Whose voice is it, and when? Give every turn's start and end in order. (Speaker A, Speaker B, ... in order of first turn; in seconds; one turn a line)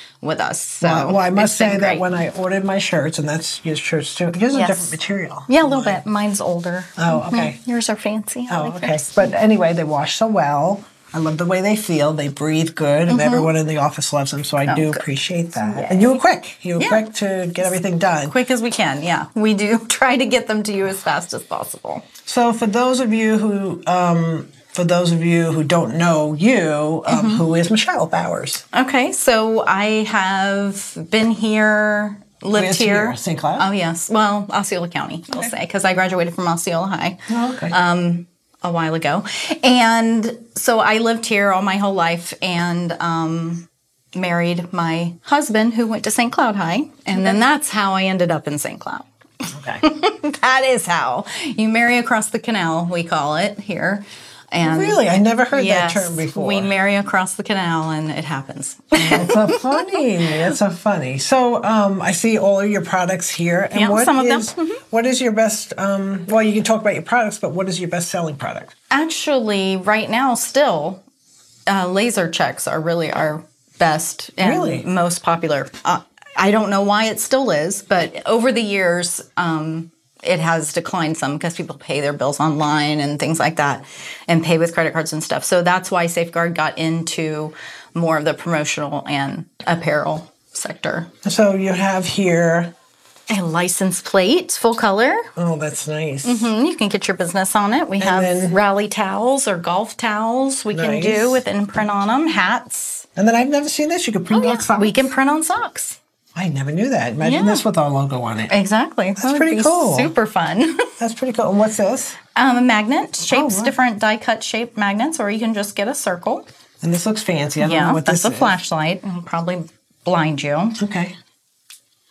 Speaker A: 0.2-2.0
Speaker B: 0.8-6.0
Speaker A: 4.5-5.0
Speaker A: 5.5-9.2
Speaker B: 7.0-7.6
Speaker B: 8.5-18.3
Speaker A: 13.1-13.5
Speaker A: 14.7-15.0
Speaker A: 15.6-16.2
Speaker A: 16.8-17.1
Speaker A: 18.3-22.0
Speaker B: 22.2-28.6
Speaker A: 27.1-27.4
Speaker A: 28.7-49.1
Speaker B: 32.5-33.7
Speaker B: 37.3-37.8
Speaker B: 49.5-49.8
Speaker A: 49.8-60.0
Speaker B: 54.6-56.7
Speaker B: 58.9-68.7
Speaker A: 63.7-64.8
Speaker A: 68.9-71.0
Speaker A: 71.7-91.1
Speaker B: 74.4-74.8
Speaker B: 91.2-92.7
Speaker A: 93.3-95.2
Speaker B: 95.3-96.5
Speaker A: 96.2-103.0
Speaker B: 98.0-98.6
Speaker B: 100.7-101.4
Speaker B: 103.2-105.1
Speaker A: 104.3-106.0
Speaker B: 106.3-108.5
Speaker A: 107.2-107.6
Speaker A: 108.5-110.8
Speaker B: 109.2-110.1
Speaker B: 111.0-112.2
Speaker A: 112.3-116.5
Speaker B: 113.3-113.7
Speaker B: 116.8-118.5
Speaker A: 117.6-120.8
Speaker B: 120.8-121.2